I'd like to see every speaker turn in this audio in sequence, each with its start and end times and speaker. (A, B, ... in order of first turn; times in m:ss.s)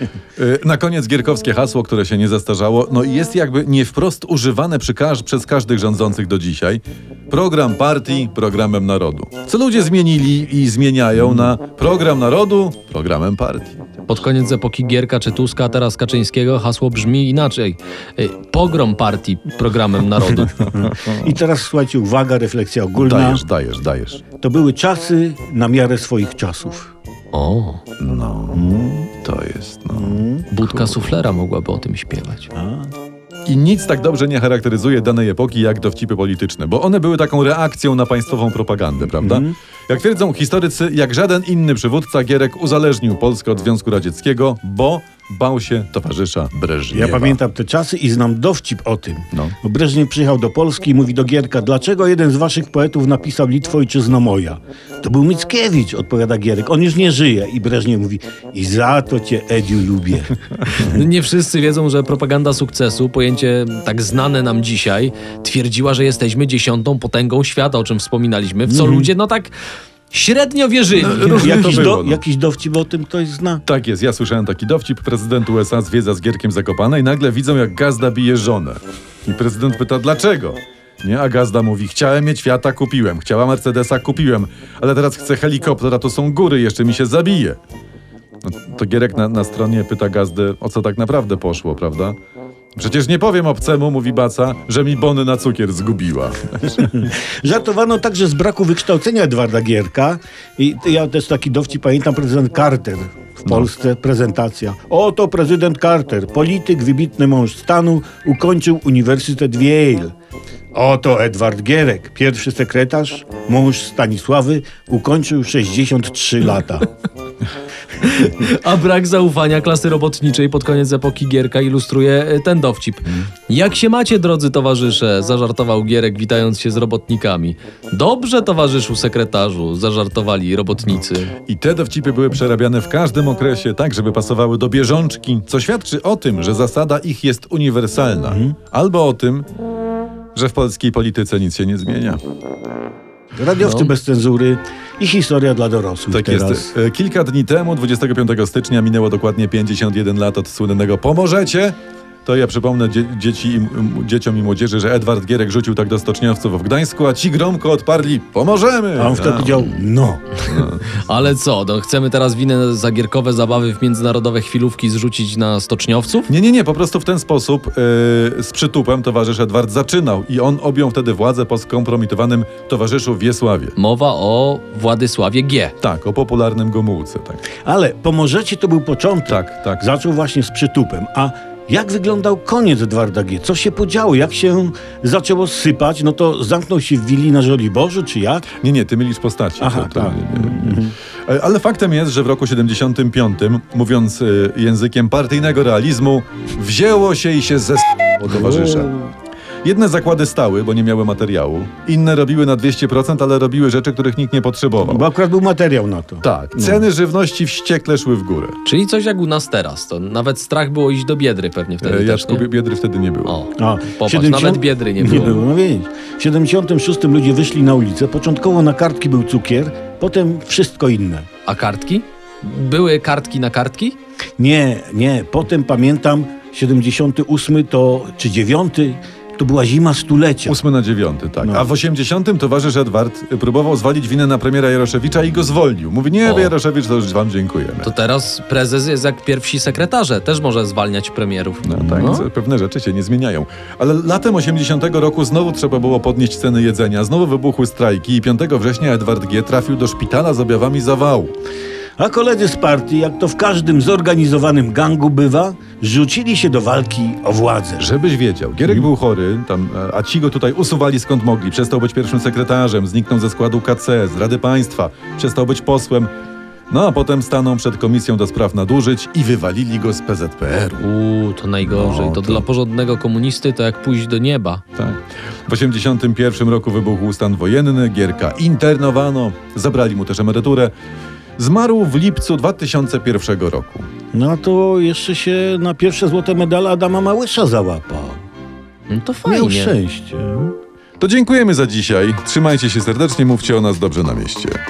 0:00.4-0:14.2 A
0:14.1-0:20.6 B
0:20.7-0:23.4 C
0:23.0-0:24.2 A
0:24.4-0:26.9 C
0:27.3-0:27.8 B
0:28.0-0:31.2 A
0:28.5-0:29.1 C
0:29.9-0:30.5 C
0:30.5-0:32.5 B
0:32.5-0:32.9 C
0:33.5-0:47.4 A
0:39.2-0:39.6 C
0:46.9-1:01.0 C
1:00.7-1:09.5 B
1:08.7-1:09.1 C
1:10.1-1:12.0 B
1:10.9-1:12.2 A
1:11.3-1:13.6 C
1:13.7-1:27.6 A
1:28.5-1:32.2 A
1:32.8-1:36.9 A
1:36.9-1:50.1 C
1:50.7-1:56.9 C
1:58.0-2:11.3 B
2:11.5-2:19.5 A
2:18.3-2:18.6 C
2:20.4-2:22.2 A
2:23.4-2:26.7 C
2:23.6-2:23.9 B
2:26.1-2:39.7 A
2:39.0-2:40.5 C
2:40.5-2:41.0 A
2:40.9-2:46.3 B
2:46.3-2:53.8 A
2:53.8-2:55.8 B
2:55.8-2:57.4 A
2:57.6-3:08.5 C
2:59.3-2:59.8 A
3:08.6-3:18.9 A
3:09.6-3:11.0 C
3:18.2-3:19.1 C
3:19.6-3:25.1 A
3:24.8-3:26.8 C
3:26.2-3:28.6 A
3:28.6-3:32.5 B
3:31.8-3:33.4 A
3:33.2-3:35.4 B
3:33.6-3:41.3 C
3:41.5-3:44.0 B
3:44.4-3:50.6 C
3:50.5-3:57.9 A
3:51.4-3:51.7 C
3:56.2-3:56.6 B
3:57.8-4:02.3 B
4:01.6-4:11.3 A
4:01.8-4:02.1 C
4:12.0-4:17.9 C
4:17.8-4:26.1 A
4:26.7-4:30.9 A
4:30.8-4:34.6 B
4:31.6-4:32.4 A
4:34.8-4:40.7 A
4:41.4-4:43.9 A
4:44.1-4:48.2 C
4:48.9-4:49.8 B
4:49.2-4:50.5 C
4:51.0-4:54.6 A